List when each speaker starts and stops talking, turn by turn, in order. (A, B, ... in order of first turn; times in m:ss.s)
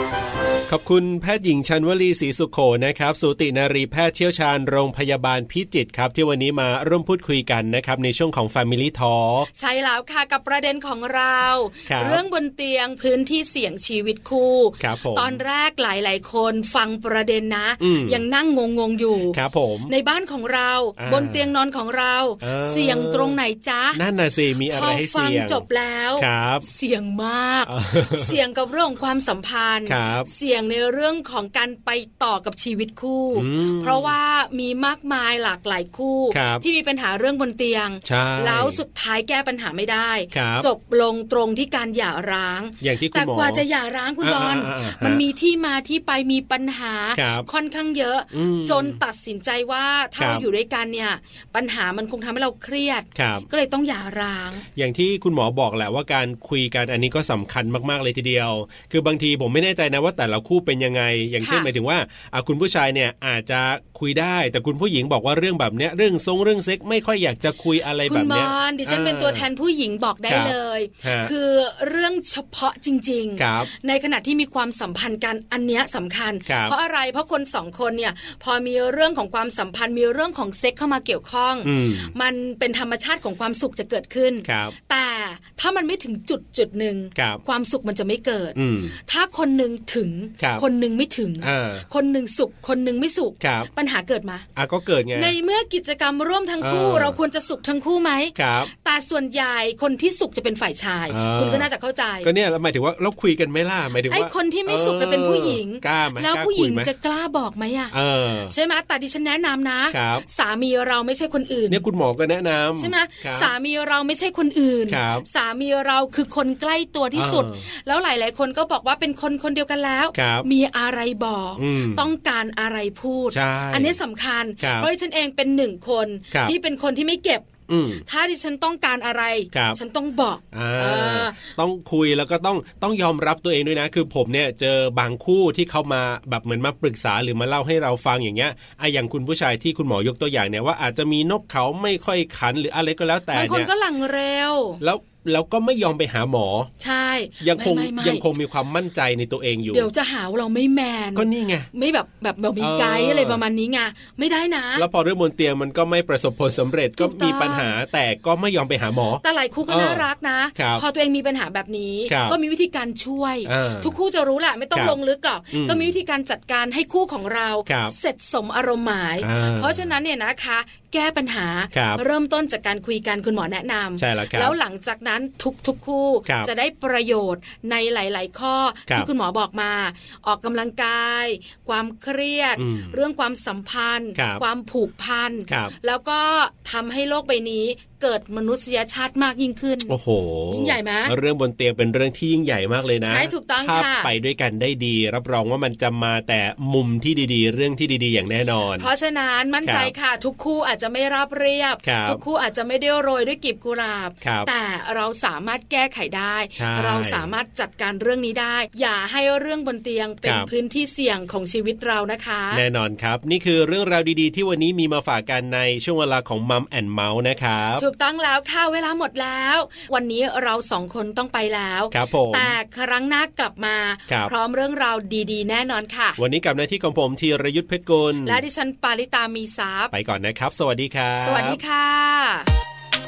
0:00.7-0:09.5 A
0:09.6-0:24.0 B
0:11.9-0:12.2 A
0:14.8-0:15.4 A
0:17.8-0:18.2 A
0:19.3-0:19.9 A
0:21.0-0:21.5 A
0:22.4-0:23.4 A
0:24.0-0:25.6 A
0:24.7-0:54.6 B
0:26.2-0:26.7 A
0:27.6-0:28.4 A
0:29.9-0:30.3 A
0:33.3-0:34.1 A
0:36.3-0:36.6 A
0:38.0-0:38.8 A
0:40.3-0:40.7 A
0:42.8-0:43.6 A
0:44.2-0:45.2 A
0:47.2-0:47.5 A
0:48.3-0:49.0 A
0:50.2-0:50.5 A
0:53.1-0:53.5 A
0:54.8-1:09.5 A
1:01.4-1:01.7 B
1:08.1-1:34.5 B
1:10.3-1:11.3 A
1:13.4-1:13.7 A
1:16.5-1:16.8 A
1:21.6-1:22.1 A
1:24.4-1:24.8 A
1:27.1-1:27.4 A
1:28.6-1:29.0 A
1:30.4-1:30.6 A
1:31.4-1:31.9 A
1:33.4-1:33.7 A
1:34.6-1:35.4 A
1:35.1-1:42.3 B
1:36.6-1:37.2 A
1:38.4-1:38.7 A
1:41.1-1:41.7 A
1:42.2-1:46.9 A
1:44.1-1:47.9 B
1:47.9-1:48.5 A
1:48.5-1:51.8 B
1:49.9-1:50.2 A
1:51.7-1:53.5 A
1:52.8-2:07.5 B
1:54.9-1:55.3 A
1:57.1-1:57.6 A
2:00.1-2:00.5 A
2:01.6-2:02.1 A
2:03.3-2:04.0 A
2:04.6-2:04.9 A
2:07.7-2:08.0 A
2:08.0-2:11.5 B
2:09.5-2:09.8 A
2:10.5-2:23.7 A
2:23.3-2:24.8 B
2:24.8-2:26.7 A
2:26.8-2:28.3 B
2:27.4-2:29.9 A
2:29.7-2:34.9 B
2:31.1-2:31.7 A
2:32.6-2:33.4 A
2:34.8-2:40.8 A
2:37.0-2:37.7 B
2:39.2-3:10.0 B
2:42.1-2:42.4 A
2:43.5-2:43.9 A
2:45.5-2:45.9 A
2:47.6-2:47.9 A
2:49.2-2:49.9 A
2:51.7-2:52.0 A
2:54.0-2:54.6 A
3:02.6-3:03.0 A
3:04.2-3:04.4 A
3:05.5-3:05.7 A
3:09.9-3:18.9 A
3:10.5-3:11.1 B
3:13.0-3:14.1 B
3:18.8-3:32.6 B
3:19.6-3:19.9 A
3:21.8-3:22.2 A
3:24.2-3:24.5 A
3:26.5-3:27.3 A
3:30.2-3:30.5 A
3:32.5-3:37.8 A
3:37.8-3:46.2 B
3:41.9-3:42.6 A
3:46.2-3:48.4 A
3:48.2-3:49.9 B
3:49.9-3:51.6 A
3:51.2-3:52.5 B